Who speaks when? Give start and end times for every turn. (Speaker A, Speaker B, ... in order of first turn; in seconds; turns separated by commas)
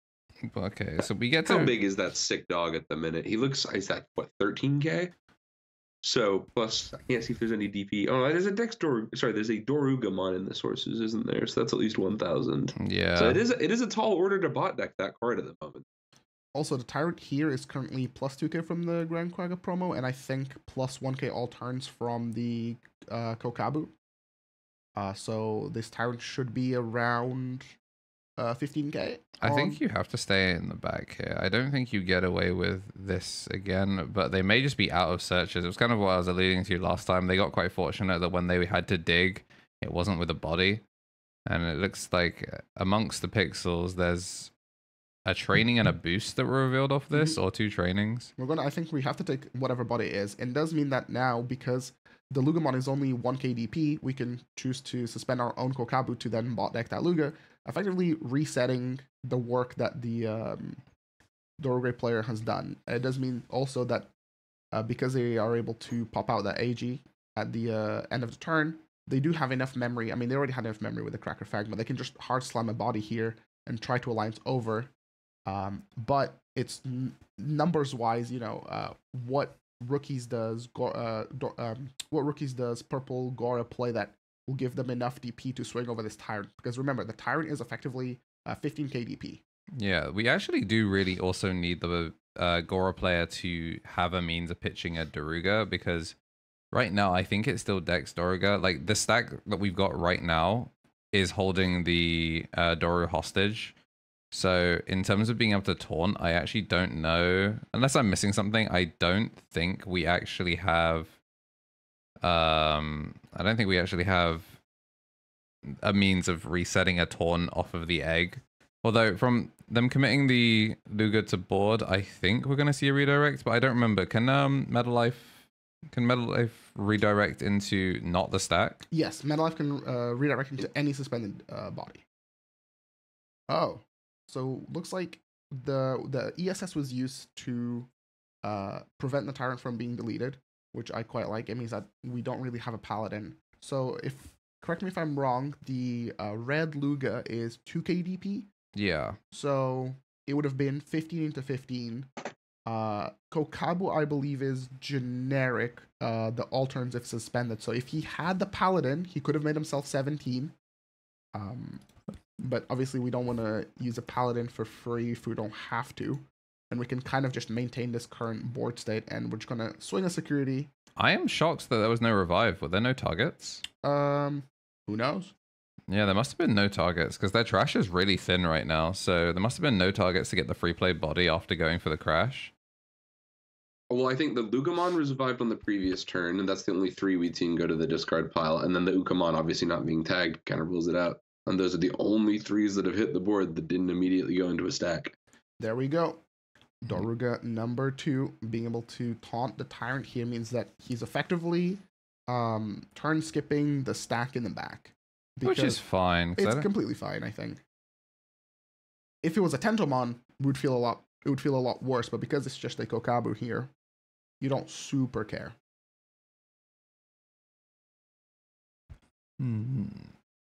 Speaker A: 0.5-1.8, Speaker B: 1.4-5.1, Speaker B: 6.0-15.8, Speaker A: 12.8-13.4, Speaker C: 16.5-23.9, Speaker C: 24.9-27.7, Speaker C: 28.4-29.8, Speaker A: 29.4-40.8, Speaker A: 41.5-44.5, Speaker A: 45.2-48.3, Speaker C: 47.1-47.4, Speaker C: 48.4-60.8, Speaker C: 61.6-64.1, Speaker C: 64.7-74.9, Speaker C: 75.5-89.4, Speaker A: 89.8-96.1, Speaker A: 96.7-103.7, Speaker A: 104.3-111.2, Speaker A: 112.2-114.6, Speaker A: 115.7-128.8, Speaker C: 128.9-132.0, Speaker C: 133.5-137.9, Speaker C: 138.4-148.5, Speaker A: 148.7-149.2, Speaker C: 149.3-152.1, Speaker C: 152.7-160.5, Speaker C: 161.3-161.8, Speaker C: 162.4-170.7, Speaker A: 171.0-173.6, Speaker C: 173.8-175.3, Speaker A: 175.9-182.5, Speaker B: 183.9-195.1, Speaker C: 195.6-196.2, Speaker C: 196.8-205.8, Speaker A: 205.4-206.7, Speaker C: 206.4-207.6, Speaker C: 209.2-213.7, Speaker C: 214.4-215.5, Speaker A: 219.4-220.1